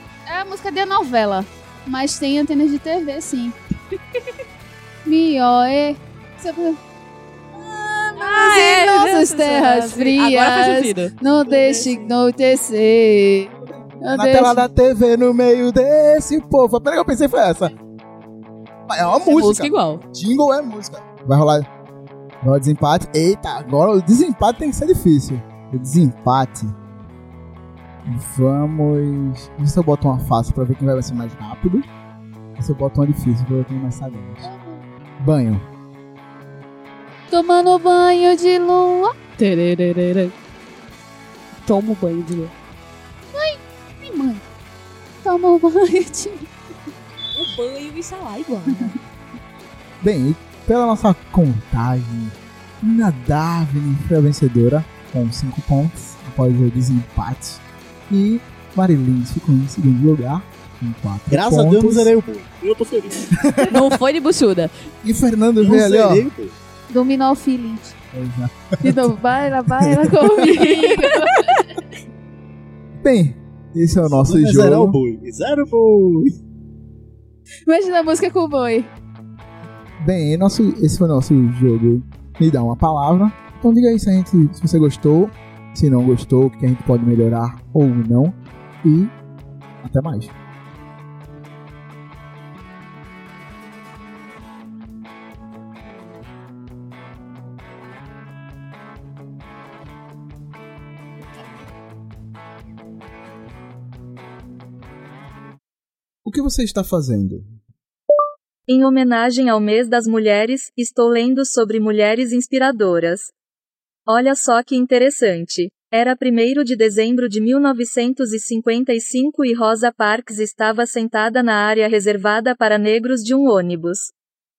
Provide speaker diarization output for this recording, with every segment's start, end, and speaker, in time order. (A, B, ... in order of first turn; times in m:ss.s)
0:00.3-0:03.6 A
0:05.0-0:06.8 A
0:07.6-0:12.1 B
0:08.2-0:14.6 A
0:14.1-0:17.7 C
0:18.9-0:21.7 C
0:19.2-0:20.0 B
0:22.4-0:26.8 C
0:28.1-0:31.9 C
0:32.6-0:34.5 C
0:34.4-0:34.8 A
0:35.2-0:35.7 C
0:37.3-0:39.1 A
0:39.4-0:40.3 B
0:41.6-0:42.5 B
0:43.3-0:44.4 A
0:45.2-0:46.5 A
0:47.4-0:49.0 B
0:50.0-1:02.1 C
1:01.3-1:03.4 D
1:03.4-1:03.8 C
1:03.6-1:04.7 B
1:05.0-1:06.3 C
1:05.6-1:06.5 D
1:06.9-1:08.0 A
1:08.1-1:09.2 C
1:08.8-1:11.7 A
1:09.8-1:10.5 C
1:10.6-1:11.2 B
1:13.0-1:15.0 C
1:14.0-1:16.3 D
1:17.7-1:18.9 A
1:20.0-1:29.1 C
1:29.8-1:30.3 C
1:46.2-1:47.4 C
1:48.7-1:53.3 E
1:54.1-2:04.1 E